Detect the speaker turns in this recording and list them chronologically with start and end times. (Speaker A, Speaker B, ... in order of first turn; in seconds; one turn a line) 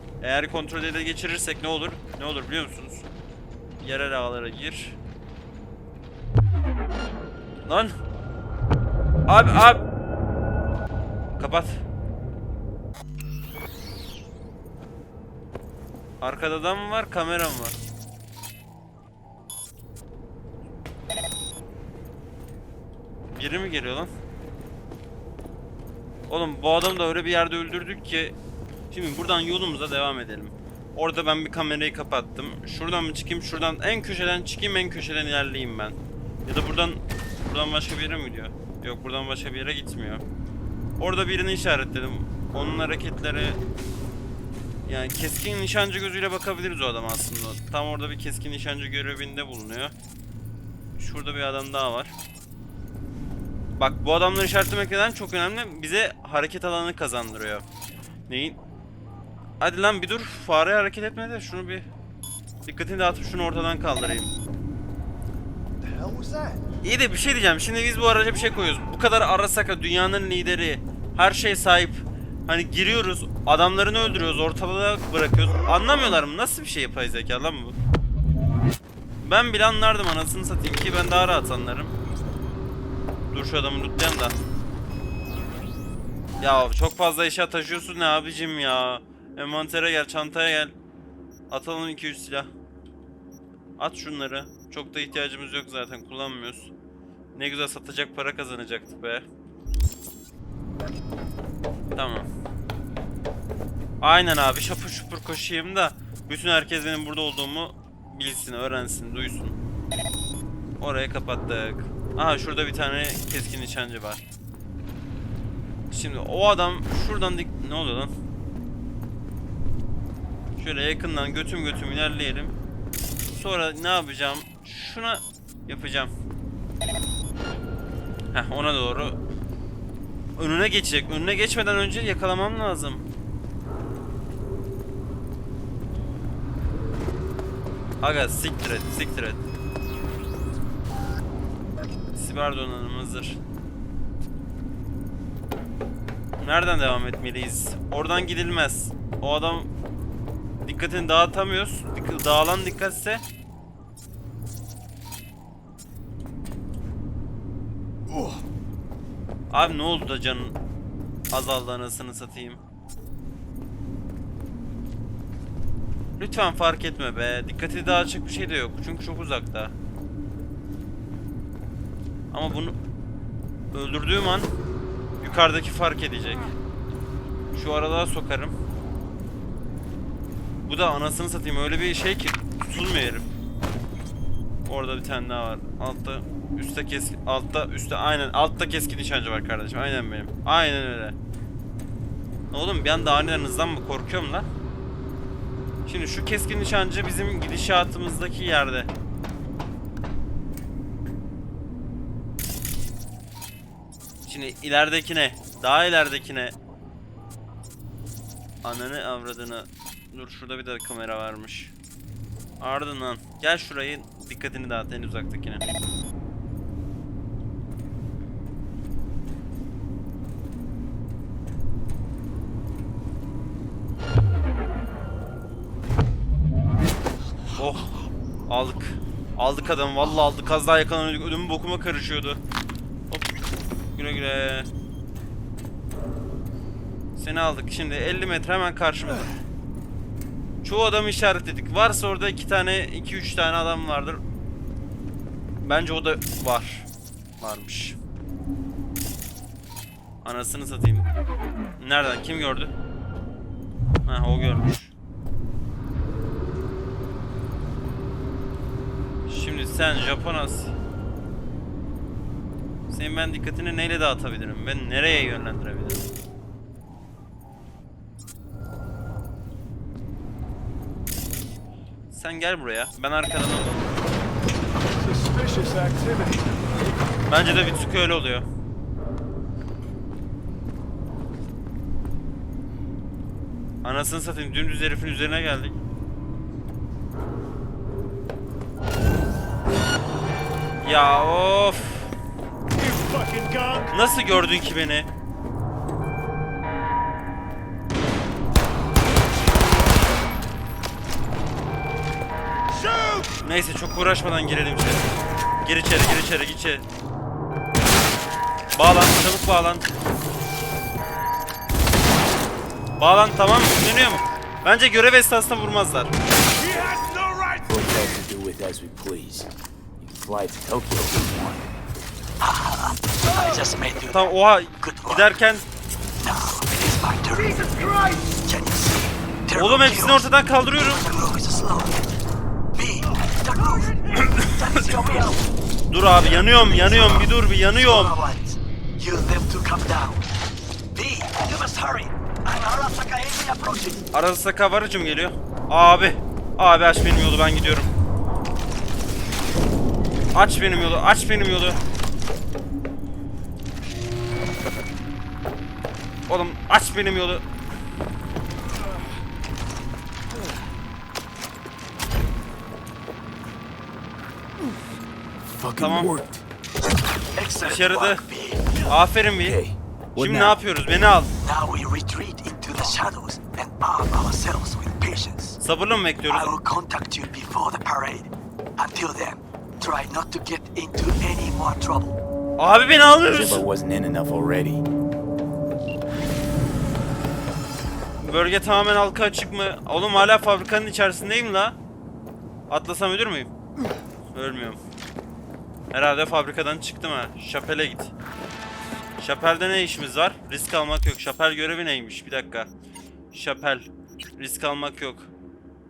Speaker A: 0.2-3.1
Speaker A: 3.8-5.0
Speaker A: 7.7-8.0
Speaker A: 9.3-9.8
Speaker A: 11.4-11.8
Speaker A: 16.2-17.8
Speaker A: 23.4-24.1
Speaker A: 26.3-28.4
Speaker A: 28.9-40.2
Speaker A: 41.0-43.6
Speaker A: 44.9-49.9
Speaker A: 51.0-52.1
Speaker A: 53.8-57.6
Speaker A: 58.3-58.6
Speaker A: 59.6-61.9
Speaker A: 62.7-64.3
Speaker A: 66.8-77.8
Speaker A: 79.2-81.9
Speaker A: 83.3-84.4
Speaker A: 86.4-90.7
Speaker A: 91.5-92.5
Speaker A: 93.8-96.7
Speaker A: 97.3-99.2
Speaker A: 102.0-102.3
Speaker A: 104.0-109.6
Speaker A: 110.8-114.2
Speaker A: 115.9-118.1
Speaker A: 120.6-122.5
Speaker A: 123.3-126.1
Speaker A: 128.3-129.2
Speaker A: 130.4-133.1
Speaker A: 138.0-139.4
Speaker A: 142.1-143.4
Speaker A: 146.4-149.7
Speaker A: 150.6-153.2
Speaker A: 159.5-160.6
Speaker A: 161.3-162.6
Speaker A: 166.2-169.7
Speaker A: 172.3-172.8
Speaker A: 173.7-174.5
Speaker A: 175.2-176.4
Speaker A: 177.5-178.5
Speaker A: 180.7-183.2
Speaker A: 184.7-191.2
Speaker A: 192.5-194.5
Speaker A: 195.9-198.9
Speaker A: 204.2-206.6
Speaker A: 208.6-211.7
Speaker A: 212.6-215.6
Speaker A: 227.6-227.9
Speaker A: 228.5-232.4
Speaker A: 234.0-234.7
Speaker A: 237.2-239.3
Speaker A: 240.6-244.2
Speaker A: 245.6-246.9
Speaker A: 247.4-248.0
Speaker A: 250.2-251.1
Speaker A: 251.8-252.7
Speaker A: 254.1-254.9
Speaker A: 259.3-260.8
Speaker A: 262.9-266.0
Speaker A: 272.1-273.9
Speaker A: 277.3-278.4
Speaker A: 283.8-285.8
Speaker A: 290.8-292.1
Speaker A: 293.9-295.1
Speaker A: 303.4-305.1
Speaker A: 305.6-306.8
Speaker A: 308.7-309.9
Speaker A: 313.0-316.1
Speaker B: 316.9-321.7
Speaker C: 322.4-325.3
Speaker A: 324.1-325.6
Speaker C: 326.2-332.0
Speaker A: 329.5-331.1
Speaker C: 332.8-335.4
Speaker A: 335.9-338.1
Speaker C: 336.1-340.2
Speaker C: 340.9-344.0
Speaker A: 344.1-347.9
Speaker A: 350.3-351.8
Speaker A: 356.3-357.4
Speaker B: 365.4-366.4
Speaker A: 365.8-366.1
Speaker C: 367.4-368.9
Speaker A: 367.6-368.2
Speaker A: 368.9-369.6
Speaker B: 369.4-370.6
Speaker A: 370.1-371.3
Speaker C: 371.4-375.6
Speaker A: 375.6-376.6
Speaker C: 376.3-382.2
Speaker A: 382.6-383.7
Speaker B: 383.3-384.8
Speaker A: 388.2-391.8
Speaker A: 392.7-393.5
Speaker A: 394.3-394.8
Speaker A: 395.9-398.1
Speaker A: 399.2-402.7
Speaker A: 403.3-403.9
Speaker A: 404.4-405.3